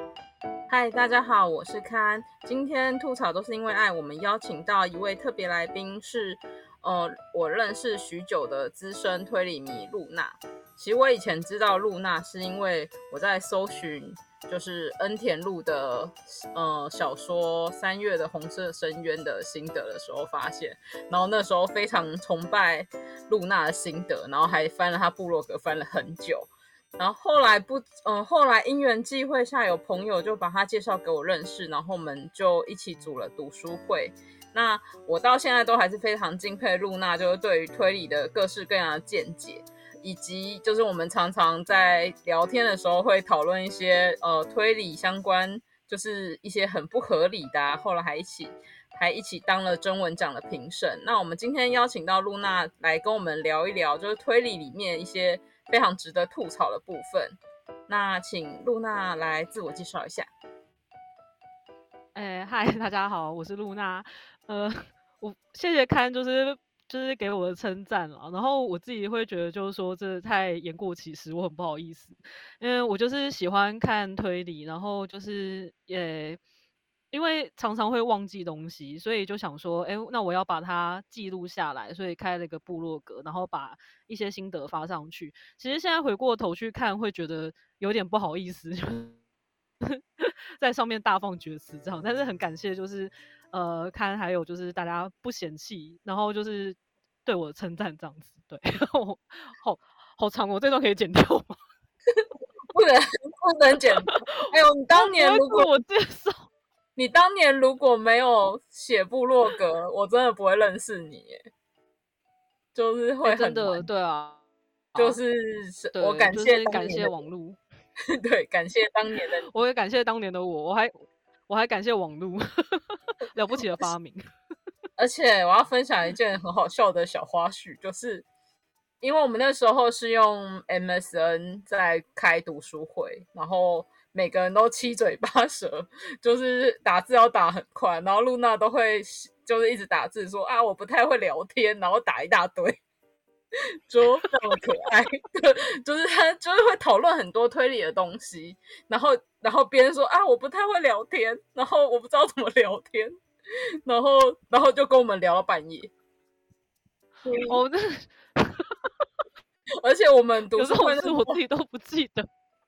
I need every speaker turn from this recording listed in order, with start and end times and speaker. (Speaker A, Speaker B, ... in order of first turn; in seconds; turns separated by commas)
Speaker A: 0.7-60.3, Speaker B: 62.1-76.4, Speaker B: 77.1-89.2, Speaker B: 89.8-101.5, Speaker A: 102.1-105.7, Speaker B: 104.0-106.5, Speaker A: 107.0-111.4, Speaker A: 112.7-113.8, Speaker B: 113.2-114.4, Speaker B: 114.9-115.2, Speaker A: 115.0-117.2, Speaker B: 115.9-117.6, Speaker A: 118.1-119.5, Speaker B: 119.5-120.9, Speaker B: 121.5-124.2, Speaker A: 125.0-128.3, Speaker A: 129.0-142.8, Speaker A: 143.6-153.1, Speaker A: 153.8-155.9, Speaker A: 157.2-157.6, Speaker B: 157.4-158.8, Speaker A: 159.8-161.4, Speaker B: 160.6-162.3